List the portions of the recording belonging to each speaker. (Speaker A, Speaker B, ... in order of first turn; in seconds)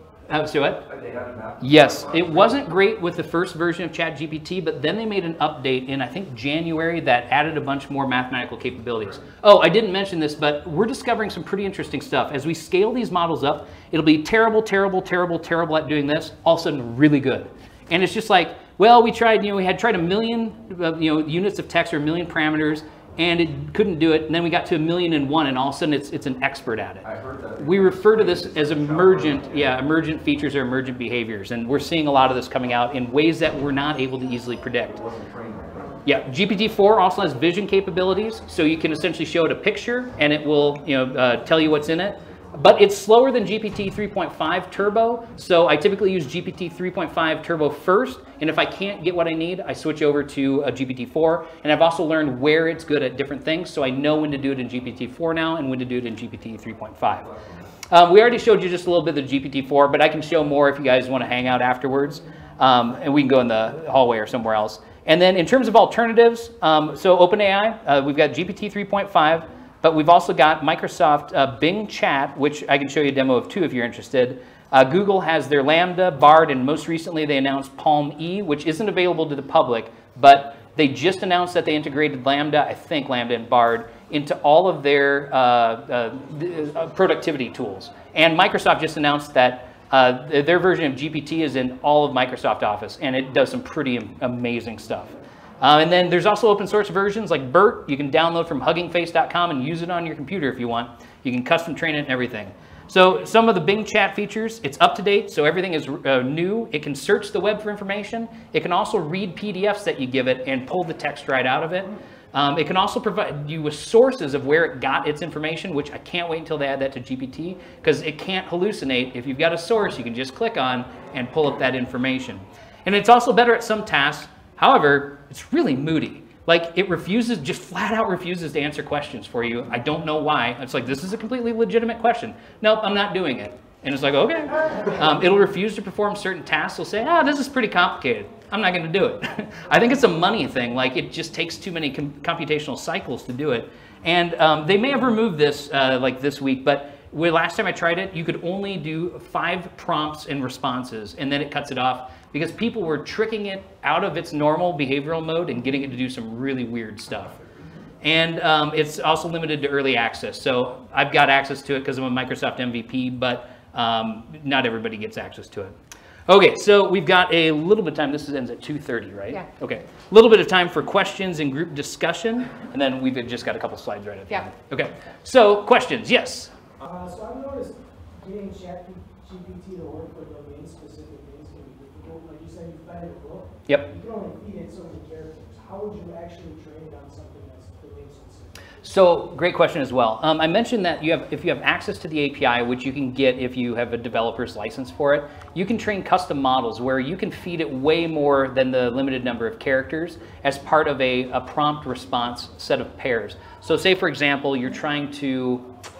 Speaker A: 0.3-0.9, 1.6-27.1, 27.6-35.0, 36.0-57.3, 57.9-157.4, 158.0-176.6, 188.8-205.7
Speaker B: 0.8-2.7, 27.0-29.9, 34.9-36.0, 57.1-57.7
Speaker C: 176.8-188.6